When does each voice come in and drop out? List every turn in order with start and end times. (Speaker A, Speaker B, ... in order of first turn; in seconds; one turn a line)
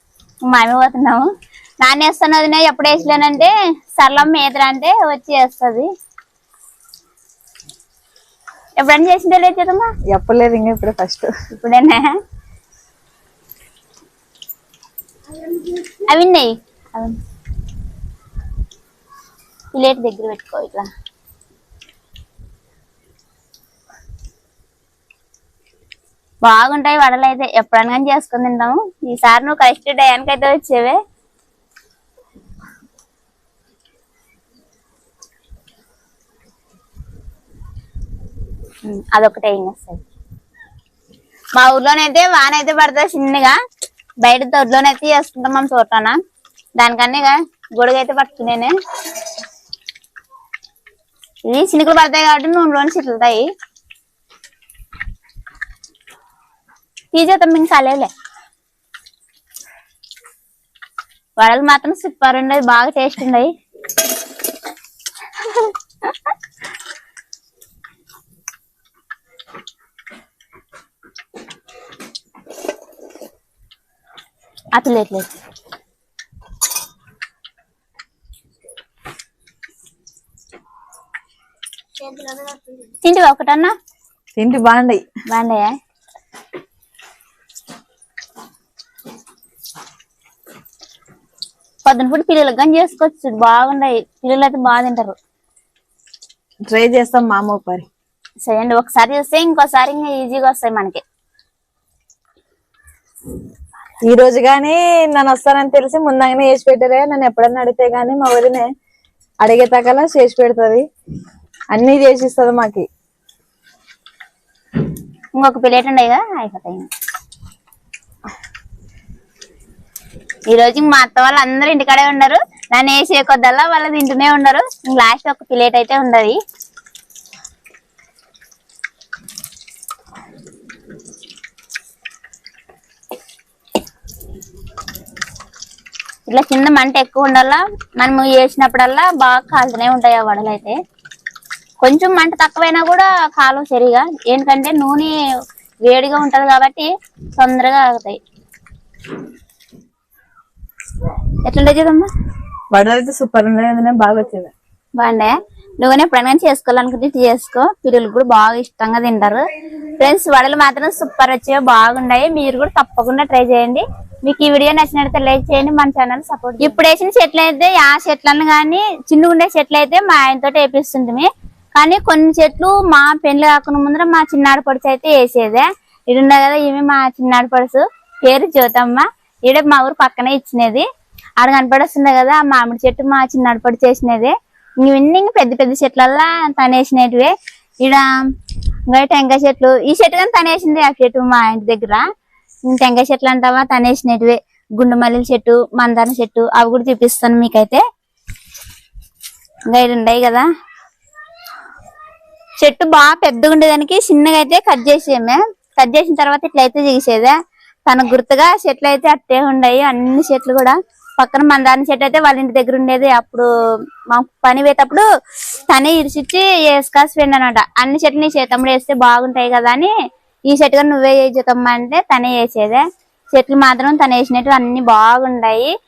Speaker A: 0.4-5.9
Speaker A: 8.8-9.9
Speaker B: 10.1-11.3
Speaker A: 11.5-12.2
Speaker A: 15.5-17.2
Speaker A: 19.7-20.9
Speaker A: 26.4-31.0
Speaker A: 38.8-40.0
Speaker A: 41.5-43.6
Speaker A: 44.2-46.2
Speaker A: 46.8-48.8
Speaker A: 51.5-53.5
Speaker A: 57.1-58.1
Speaker A: 61.4-63.5
Speaker A: 65.4-66.1
Speaker A: 74.7-75.3
Speaker A: 82.9-83.7
Speaker B: 84.4-85.0
Speaker A: 85.3-85.7
Speaker A: 91.8-95.2
Speaker B: 96.7-97.9
Speaker A: 98.4-101.0
Speaker B: 104.0-108.7
Speaker B: 109.4-110.9
Speaker B: 111.7-112.9
Speaker A: 115.4-116.9
Speaker A: 120.5-126.4
Speaker A: 136.3-140.8
Speaker A: 141.8-145.2
Speaker A: 145.8-148.2
Speaker A: 151.4-152.1
Speaker B: 152.7-154.5
Speaker A: 155.0-159.4
Speaker A: 160.0-180.8
Speaker A: 181.4-188.1
Speaker A: 188.9-192.0
Speaker A: 192.7-197.8
Speaker A: 199.7-200.4
Speaker A: 202.6-207.3
Speaker A: 207.9-213.5
Speaker A: 214.1-215.1
Speaker A: 215.7-219.9
Speaker A: 220.5-225.7